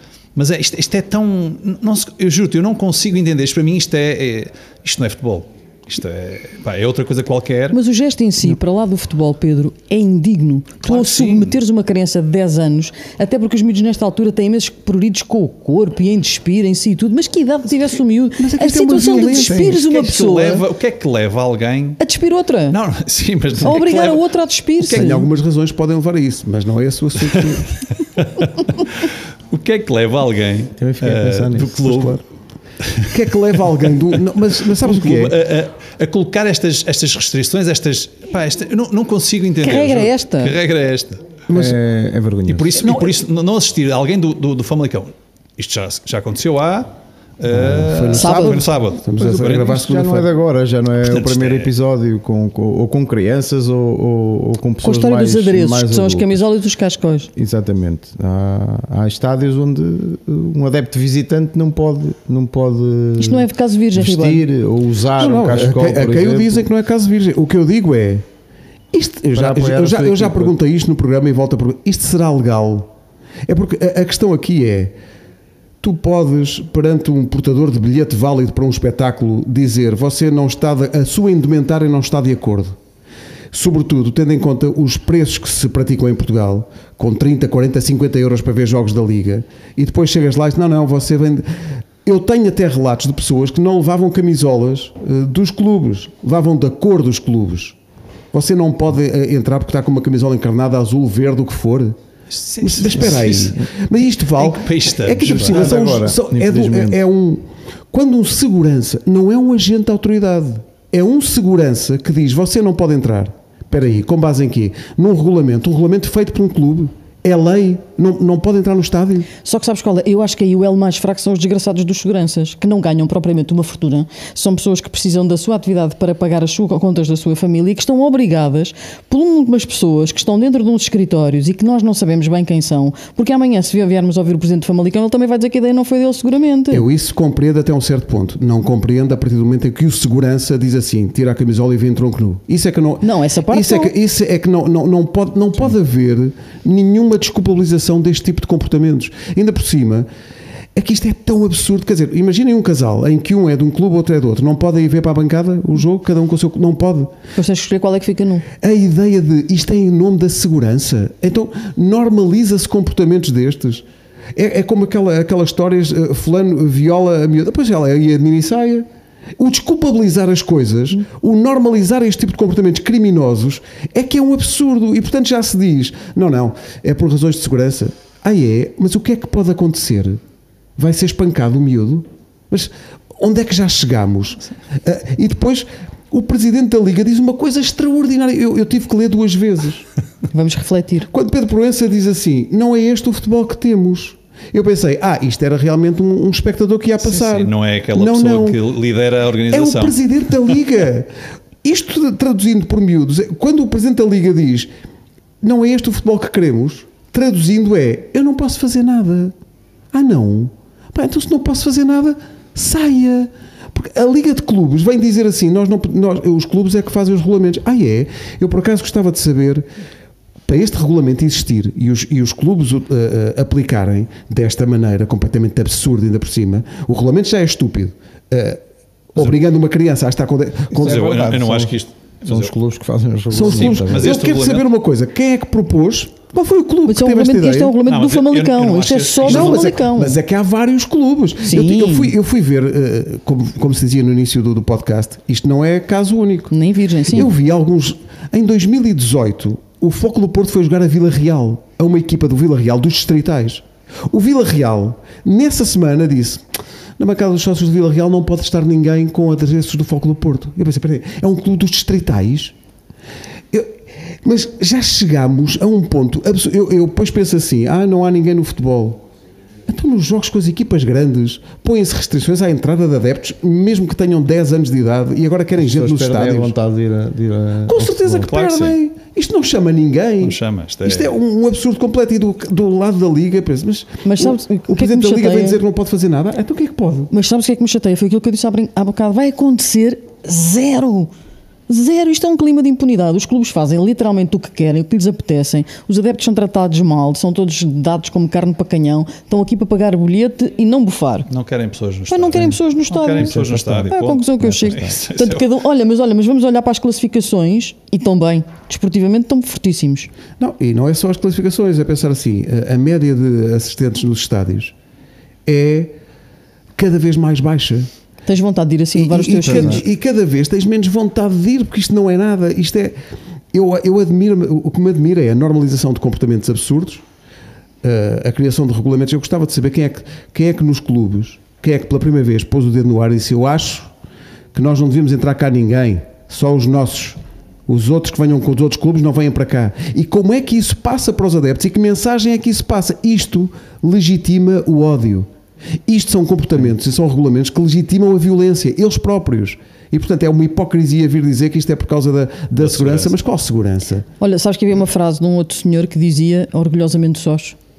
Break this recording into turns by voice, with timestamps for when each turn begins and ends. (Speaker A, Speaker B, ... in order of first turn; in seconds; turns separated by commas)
Speaker A: 0.3-7.8, Speaker B: 7.7-20.6, Speaker A: 10.8-11.6, Speaker C: 18.4-19.6, Speaker A: 19.4-22.0, Speaker B: 22.0-22.8, Speaker A: 22.7-24.3, Speaker B: 23.6-25.3, Speaker A: 24.8-25.1, Speaker C: 24.8-27.9, Speaker A: 27.8-32.2, Speaker D: 30.8-32.0, Speaker C: 31.9-32.1, Speaker A: 32.8-33.2, Speaker C: 33.1-35.3, Speaker A: 34.5-41.2, Speaker B: 39.6-40.5, Speaker C: 41.5-41.8, Speaker D: 41.5-42.8, Speaker A: 42.5-49.8, Speaker C: 47.5-50.3, Speaker B: 48.1-48.7, Speaker D: 49.2-56.5, Speaker A: 51.0-51.7, Speaker B: 54.8-57.3, Speaker D: 57.3-66.7, Speaker B: 63.2-64.4, Speaker C: 65.2-68.2, Speaker C: 68.9-72.9, Speaker D: 69.3-70.6, Speaker C: 73.5-74.9, Speaker C: 75.8-82.8, Speaker C: 83.5-91.5, Speaker C: 92.0-97.8, Speaker C: 98.3-102.0, Speaker A: 102.3-103.6, Speaker C: 102.6-119.3, Speaker A: 104.3-106.0, Speaker D: 105.2-107.0, Speaker B: 119.4-136.8, Speaker C: 136.7-150.1, Speaker B: 143.0-143.9, Speaker C: 150.7-157.1, Speaker B: 157.3-158.5, Speaker C: 158.6-168.8, Speaker C: 169.4-180.2, Speaker C: 180.8-189.8, Speaker B: 190.3-191.1, Speaker C: 191.1-198.6, Speaker A: 197.0-200.5, Speaker C: 199.5-201.1, Speaker C: 201.6-204.7, Speaker C: 205.4-209.3, Speaker C: 209.9-219.7, Speaker C: 220.4-228.6, Speaker C: 229.1-230.9, Speaker A: 230.7-232.5, Speaker D: 230.7-234.2, Speaker C: 233.3-237.8, Speaker A: 233.3-234.7, Speaker B: 236.8-240.2, Speaker A: 237.8-239.7, Speaker C: 239.2-246.5, Speaker B: 241.4-242.1, Speaker B: 246.5-247.3, Speaker C: 247.1-256.4, Speaker C: 257.0-262.5, Speaker C: 263.5-269.0, Speaker C: 269.7-276.5, Speaker D: 275.6-278.3, Speaker C: 277.7-287.1, Speaker A: 278.1-278.8, Speaker A: 280.2-281.2, Speaker B: 284.0-285.6, Speaker B: 287.1-291.1, Speaker B: 291.7-301.3, Speaker A: 301.3-305.5, Speaker B: 302.1-310.1, Speaker D: 303.2-304.9, Speaker C: 310.4-314.7, Speaker C: 315.4-315.9, Speaker C: 316.8-317.9, Speaker B: 318.2-319.8, Speaker C: 318.9-322.9, Speaker D: 319.4-319.8, Speaker C: 323.5-327.0, Speaker C: 327.8-333.9, Speaker C: 334.5-345.3, Speaker C: 345.9-354.1, Speaker A: 352.6-353.1, Speaker B: 354.2-357.6